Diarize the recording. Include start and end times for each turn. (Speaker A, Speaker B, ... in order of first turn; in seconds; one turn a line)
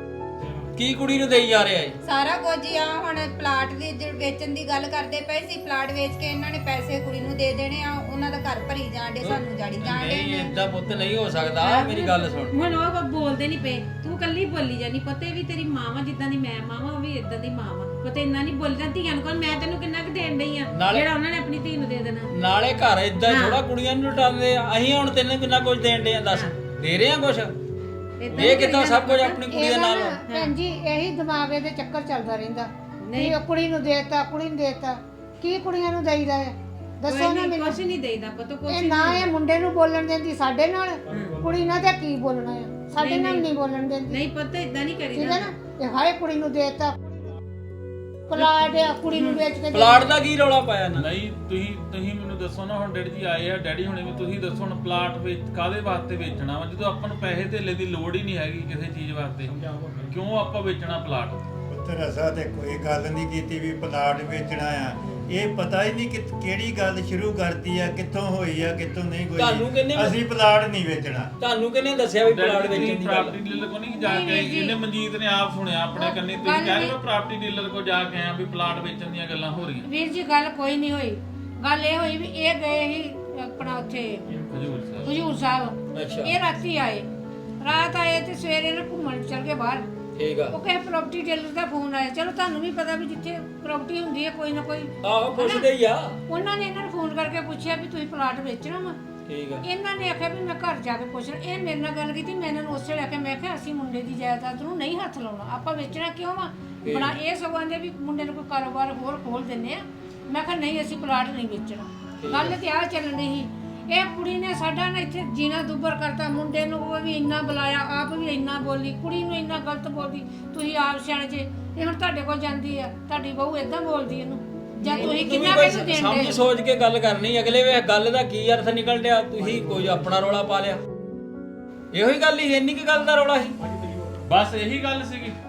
Speaker A: 0.7-2.0
Speaker B: 2.0-10.6
Speaker A: 9.2-12.5
Speaker C: 11.6-22.3
Speaker A: 20.7-21.1
Speaker A: 22.3-27.5
Speaker C: 23.2-23.6
Speaker C: 28.2-29.4
Speaker A: 28.3-30.2
Speaker D: 29.5-37.8
Speaker C: 30.2-30.6
Speaker C: 33.0-33.4
Speaker C: 37.0-39.3
Speaker D: 38.7-44.2
Speaker C: 41.1-41.4
Speaker C: 42.9-43.5
Speaker C: 44.0-45.5
Speaker D: 45.1-47.2
Speaker D: 48.3-50.1
Speaker C: 49.1-49.4
Speaker A: 49.7-51.1
Speaker E: 51.0-59.5
Speaker A: 59.5-60.1
Speaker E: 60.1-61.4
Speaker F: 61.7-71.3
Speaker A: 69.4-70.2
Speaker A: 71.4-73.4
Speaker E: 72.2-79.9
Speaker D: 74.0-74.7
Speaker D: 76.0-76.9
Speaker D: 79.8-84.3
Speaker E: 84.5-85.1
Speaker D: 85.0-87.1
Speaker A: 85.9-86.3
Speaker D: 87.6-89.8
Speaker A: 90.1-90.5
Speaker D: 90.5-95.7
Speaker A: 95.0-96.2
Speaker D: 96.3-99.0
Speaker A: 99.3-99.6
Speaker D: 99.6-126.4
Speaker A: 106.8-107.2
Speaker A: 112.2-112.6
Speaker C: 124.8-125.2
Speaker A: 124.8-130.8
Speaker A: 131.9-133.6
Speaker E: 134.2-135.3